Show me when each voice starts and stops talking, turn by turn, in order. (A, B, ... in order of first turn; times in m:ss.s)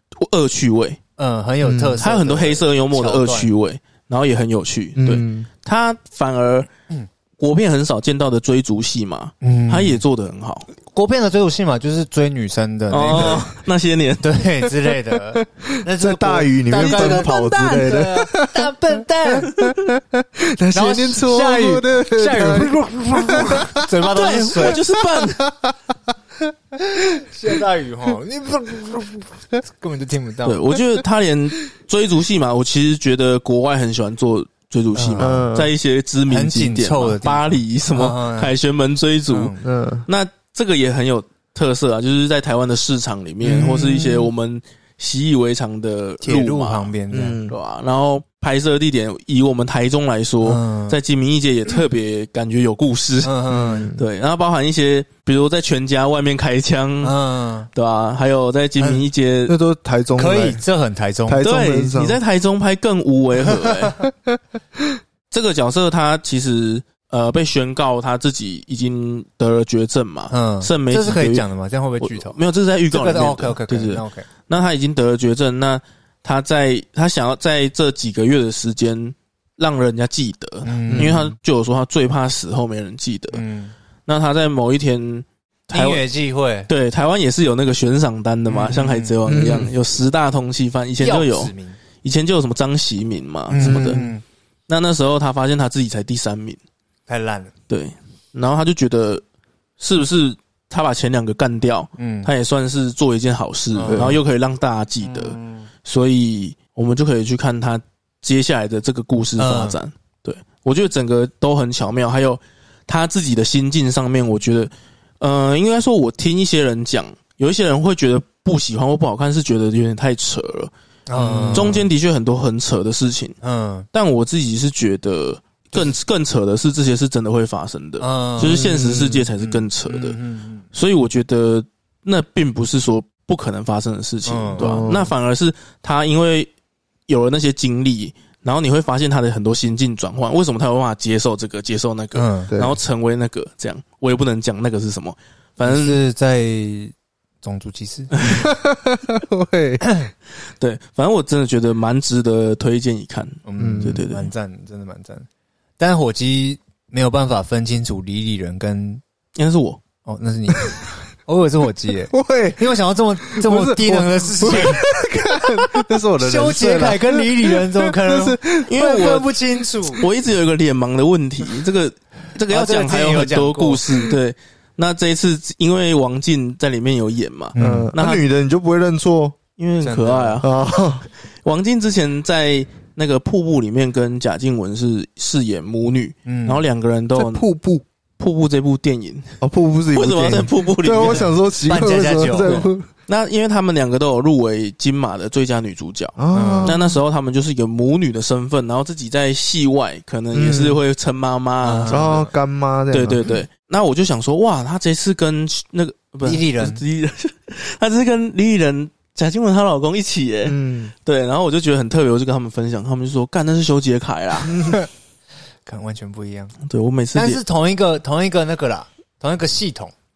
0:00.2-0:01.0 A
0:01.2-0:03.5 B
0:01.6-0:02.0 C
0:02.0-0:06.7 A
0:05.0-0:05.5 C
0:07.4-0:10.7 A
0:09.4-0:10.0 B
0:10.9-0:13.4 B
0:12.9-0:14.3 A
0:14.2-0:19.5 B
0:15.4-0:18.7 C
0:16.8-0:17.8 A
0:19.3-0:23.9 C
0:20.7-0:24.8 B
0:24.1-0:25.4 A
0:24.6-0:25.8 C
0:26.9-0:30.6 B
0:30.4-0:39.5 A
0:35.0-0:35.7 C
0:36.3-0:38.5 B
0:39.3-0:39.6 B
0:39.6-0:40.1 C
0:40.1-0:46.9 A
0:43.4-0:44.3 C
0:46.2-0:47.4 B
0:47.1-0:47.6 C
0:47.5-0:53.3 A
0:50.4-0:51.0 B
0:53.2-0:53.9 B
0:53.5-0:54.0 C
0:54.0-0:57.1 A
0:57.0-0:57.7 B
0:57.7-0:59.6 A
0:58.8-0:59.0 B
0:59.5-1:00.6 C
1:00.2-1:01.4 B
1:01.3-1:02.2 C
1:01.4-1:04.0 A
1:05.3-1:11.4 A
1:10.3-1:12.4 B
1:12.0-1:23.4 A
1:12.9-1:14.2 B
1:20.6-1:21.3 B
1:20.9-1:21.2 C
1:23.3-1:23.7 B
1:24.1-1:26.0 A
1:25.7-1:26.7 B
1:26.7-1:34.1 A
1:28.5-1:29.1 B
1:29.2-1:29.7 C
1:31.0-1:31.8 B
1:33.5-1:34.2 B
1:33.6-1:34.0 C
1:34.7-1:36.6 A
1:37.1-1:37.5 B
1:37.7-1:39.2 A
1:39.8-2:00.7 A
1:42.0-1:42.3 B
1:43.8-1:44.2 B
1:43.9-1:44.2 C
1:45.0-1:45.7 B
1:49.4-1:49.8 B
2:01.1-2:01.9 B
2:01.2-2:01.8 C
2:01.5-2:03.4 A
2:03.4-2:03.9 B
2:03.9-2:10.2 A
2:08.0-2:08.6 B
2:08.4-2:09.3 C
2:09.4-2:10.6 B
2:10.7-2:16.5 A
2:14.2-2:14.7 B
2:14.6-2:15.1 C
2:17.1-2:26.0 A
2:22.1-2:22.5 B
2:22.5-2:22.8 C
2:25.6-2:28.4 B
2:28.1-2:28.4 A
2:28.3-2:29.8 C
2:29.8-2:30.1 B
2:30.6-2:34.3 A
2:33.4-2:35.2 B
2:33.6-2:34.0 C
2:35.8-2:39.0 B
2:39.4-2:39.8 A
2:40.0-2:44.8 B
2:42.1-2:42.7 C
2:43.3-2:48.7 C
2:46.2-2:50.0 B
2:48.7-2:49.3 A
2:50.0-2:58.2 A
2:52.5-2:53.8 B
2:57.5-2:57.9 B
2:57.6-2:59.4 C
2:59.6-3:00.6 A
2:59.8-3:00.4 B
3:00.4-3:01.1 C
3:01.4-3:07.4 A
3:06.2-3:06.6 B
3:07.1-3:07.8 C
3:08.2-3:09.4 A
3:09.4-3:12.9 C
3:09.9-3:11.3 A
3:11.7-3:12.6 B
3:12.4-3:22.2 A
3:16.2-3:17.0 C
3:16.3-3:16.8 B
3:20.3-3:20.8 C
3:21.6-3:22.3 B
3:21.9-3:23.4 C
3:22.9-3:34.6 A
3:26.2-3:26.8 B
3:30.4-3:30.9 C
3:34.5-3:34.8 C
3:35.7-3:36.6 B
3:36.7-3:37.4 A
3:37.1-3:39.9 B